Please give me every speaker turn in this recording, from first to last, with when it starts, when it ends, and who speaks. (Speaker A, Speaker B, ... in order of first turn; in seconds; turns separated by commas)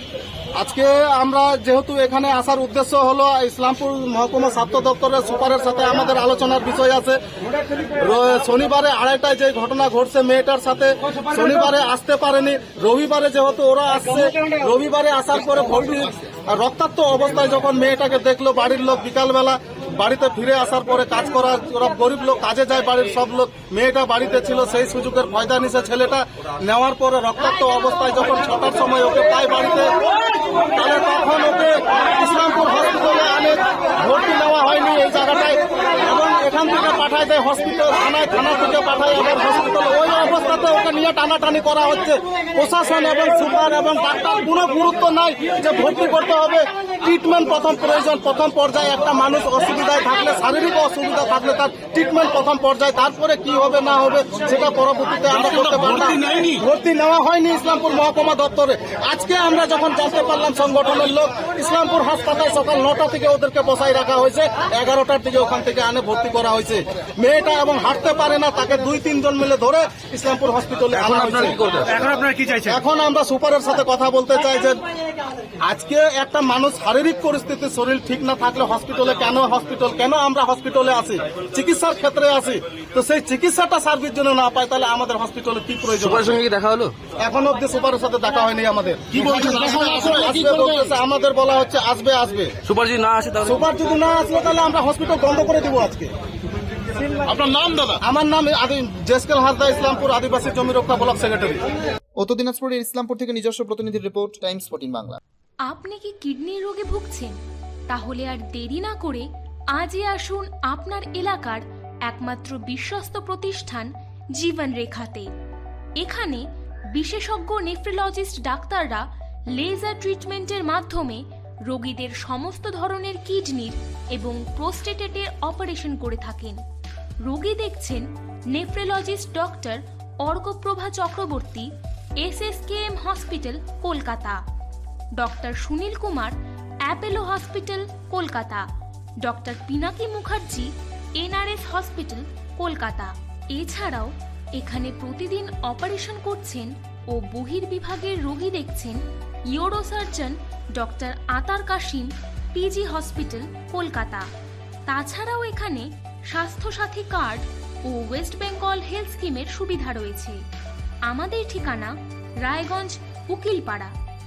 Speaker A: 0.6-7.2, Speaker A: 8.0-29.9, Speaker A: 30.8-74.8, Speaker B: 55.5-56.6, Speaker B: 71.0-71.5, Speaker C: 71.1-71.8, Speaker B: 72.0-72.8, Speaker A: 75.7-86.4, Speaker C: 86.1-86.9, Speaker A: 87.2-92.5, Speaker B: 89.2-90.9, Speaker C: 92.7-93.5, Speaker A: 93.5-96.1, Speaker B: 97.3-98.0, Speaker A: 98.0-101.6, Speaker D: 102.2-105.2, Speaker E: 105.7-107.4, Speaker E: 107.9-115.3, Speaker E: 116.0-126.6, Speaker E: 127.2-131.7, Speaker E: 132.2-134.4, Speaker E: 135.2-138.7, Speaker E: 139.2-154.3, Speaker E: 154.9-160.4, Speaker E: 161.1-163.9